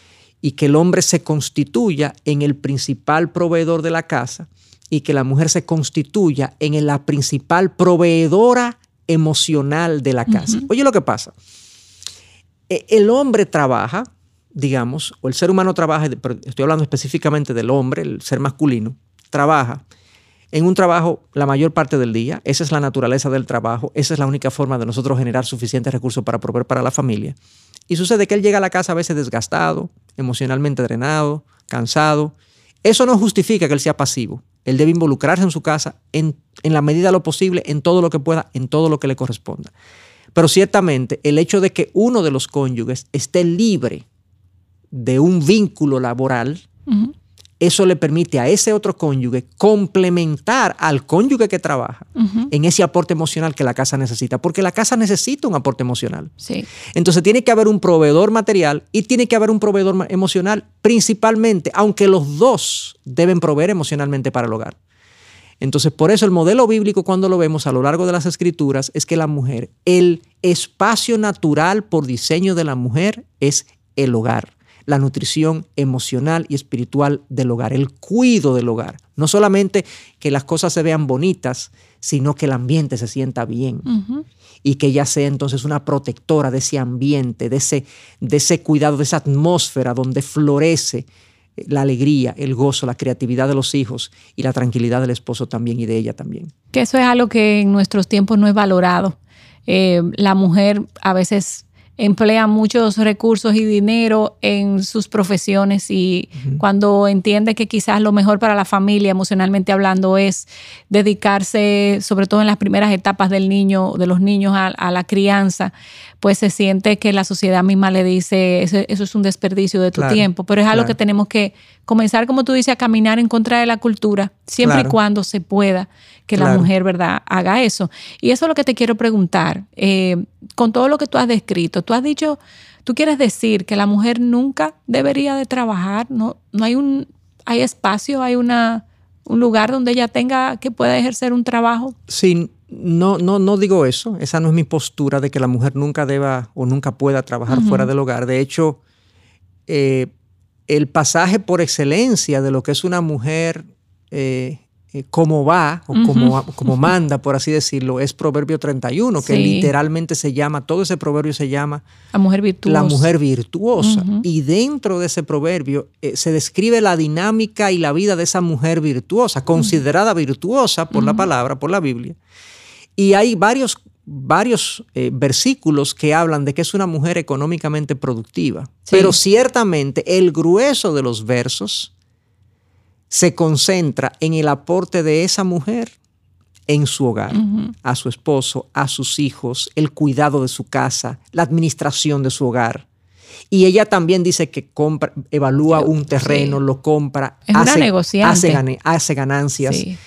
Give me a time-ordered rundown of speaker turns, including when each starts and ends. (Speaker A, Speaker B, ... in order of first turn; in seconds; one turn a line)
Speaker A: 0.4-11.3
Speaker B: 10.3-10.6
Speaker A: 12.7-19.8
Speaker A: 20.5-27.4
Speaker A: 27.9-39.7
Speaker A: 40.4-44.0
Speaker A: 44.9-46.6
Speaker B: 46.9-47.1
Speaker A: 47.6-56.3
Speaker B: 52.2-52.5
Speaker B: 56.4-56.7
Speaker A: 56.9-64.8
Speaker A: 65.6-83.9
Speaker B: 83.9-84.3
Speaker A: 84.6-91.1
Speaker A: 91.6-96.5
Speaker B: 96.7-142.0
Speaker A: 120.0-121.0
Speaker A: 124.6-125.0
Speaker A: 126.4-126.7
Speaker A: 142.1-148.8
Speaker B: 147.5-147.9
Speaker A: 149.7-150.1
Speaker A: 150.7-161.8
Speaker B: 155.9-156.7
Speaker B: 159.2-159.7
Speaker B: 162.1-163.1
Speaker A: 162.7-172.2
Speaker B: 163.8-164.2
Speaker B: 170.9-171.3
Speaker A: 173.0-181.9
Speaker B: 178.9-179.1
Speaker A: 183.1-185.9
Speaker A: 186.7-192.8
Speaker B: 187.3-187.7
Speaker A: 193.5-199.8
Speaker B: 195.7-196.6
Speaker B: 197.5-198.6
Speaker B: 199.7-200.0